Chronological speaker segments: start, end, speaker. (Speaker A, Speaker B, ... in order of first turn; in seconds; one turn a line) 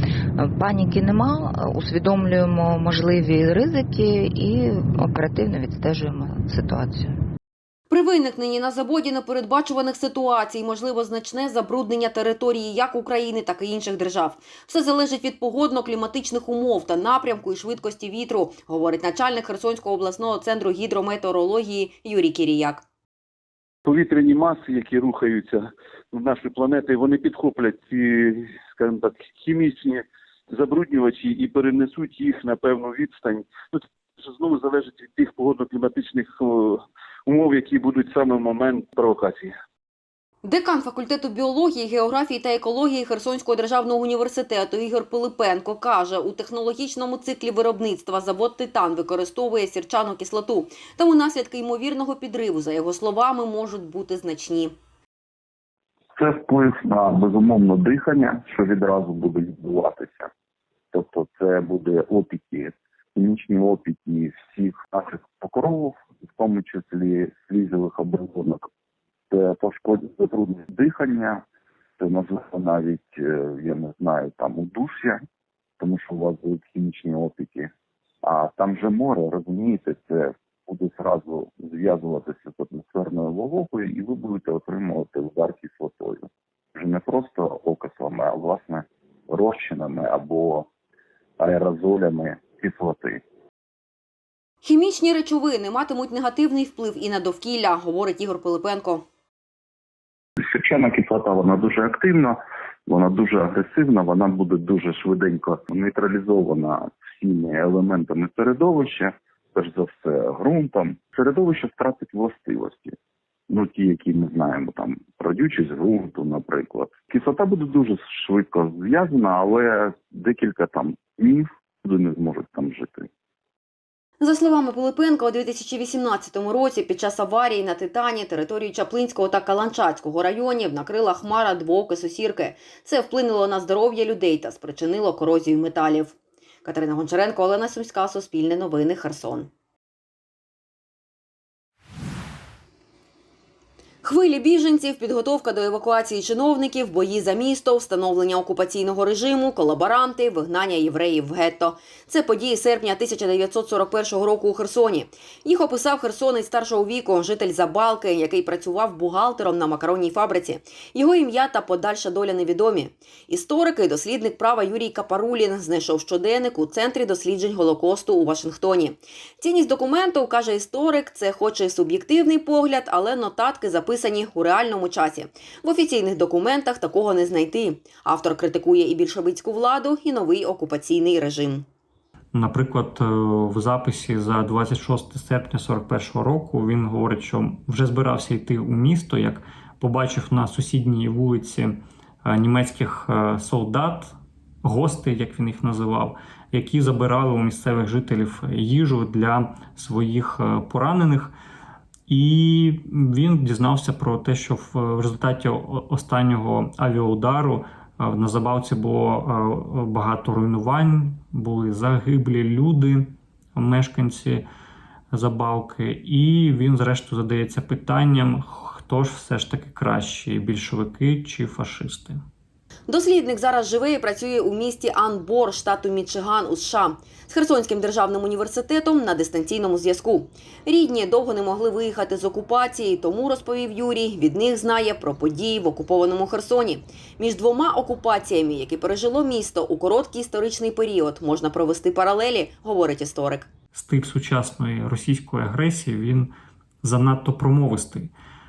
Speaker A: 0.4-7.2
Speaker B: 7.9-22.8
Speaker C: 23.9-25.6
Speaker C: 26.2-30.0
Speaker C: 30.6-33.8
Speaker C: 34.3-36.5
Speaker C: 37.3-39.4
Speaker B: 40.4-54.7
Speaker D: 56.1-60.3
Speaker D: 60.9-68.7
Speaker D: 69.3-71.4
Speaker D: 72.0-75.2
Speaker D: 75.8-77.7
Speaker D: 78.2-90.7
Speaker D: 91.4-93.2
Speaker B: 94.6-99.0
Speaker D: 100.4-113.0
Speaker D: 113.5-123.1
Speaker B: 124.2-139.5
Speaker B: 144.0-181.7
Speaker E: 182.3-201.3
Speaker E: 202.1-214.5
Speaker E: 215.1-222.2
Speaker B: 222.9-243.5
Speaker E: 243.7-248.1